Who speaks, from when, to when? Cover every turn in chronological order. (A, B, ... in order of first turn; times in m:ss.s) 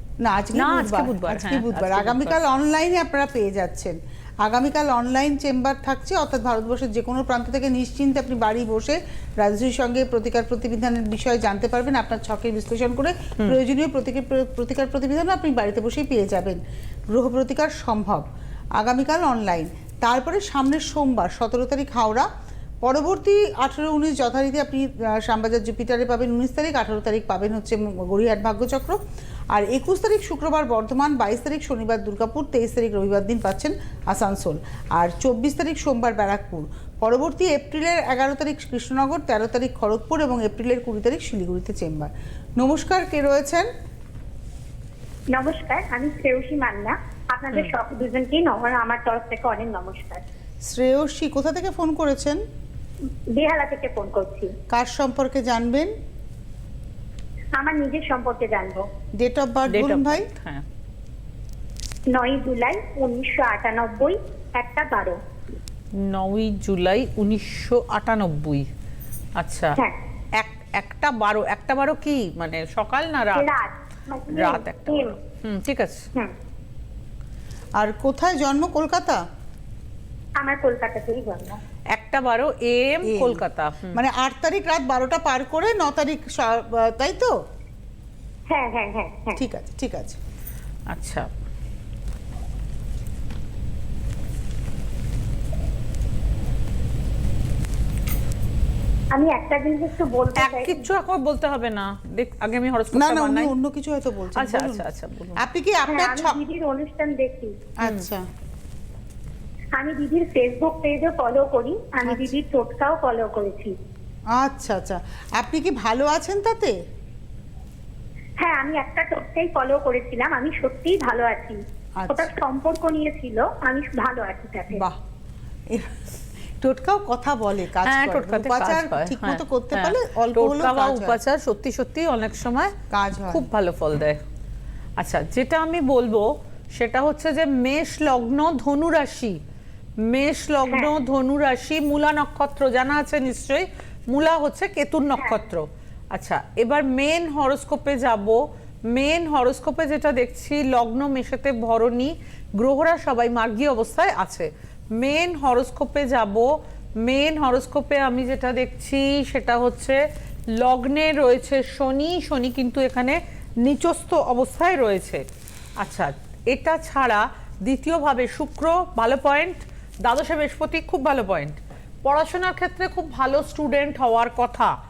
0:00.2-0:22.3 A
0:00.5-0:02.4 B
0:22.8-0:29.0 A
0:29.5-0:43.7 A
0:45.3-0:50.2 C
0:50.6-0:52.4 A
0:53.3-0:54.5 C
0:54.7-0:55.9 A
0:57.5-0:58.9 C
0:59.2-1:00.3 A
0:59.7-1:00.6 B
1:02.1-1:05.2 C
1:05.9-1:08.7 B
1:09.4-1:09.8 B
1:10.4-1:13.5 B
1:13.3-1:15.1 C
1:14.3-1:16.1 B
1:17.8-1:19.2 A
1:20.4-1:21.6 C
1:21.9-1:24.0 B
1:23.0-1:27.4 A
1:28.5-1:29.4 C
1:29.4-1:30.2 A
1:30.9-1:31.3 B
1:39.1-1:40.8 C
1:40.4-1:43.5 B
1:42.9-1:44.8 A
1:44.4-1:45.4 B
1:45.4-1:46.4 A
1:45.8-1:47.6 C
1:47.8-1:48.2 A
1:49.8-1:53.7 C
1:54.4-1:56.7 A
1:58.4-2:04.8 C
2:02.0-2:02.3 A
2:05.7-2:06.0 A
2:06.6-2:11.2 A
2:07.8-2:12.7 B
2:12.9-2:13.4 A
2:13.3-2:14.2 B
2:15.0-2:19.4 B
2:20.0-2:36.5 B
2:37.0-2:40.0 B
2:40.6-2:45.2 B
2:45.8-2:54.7 B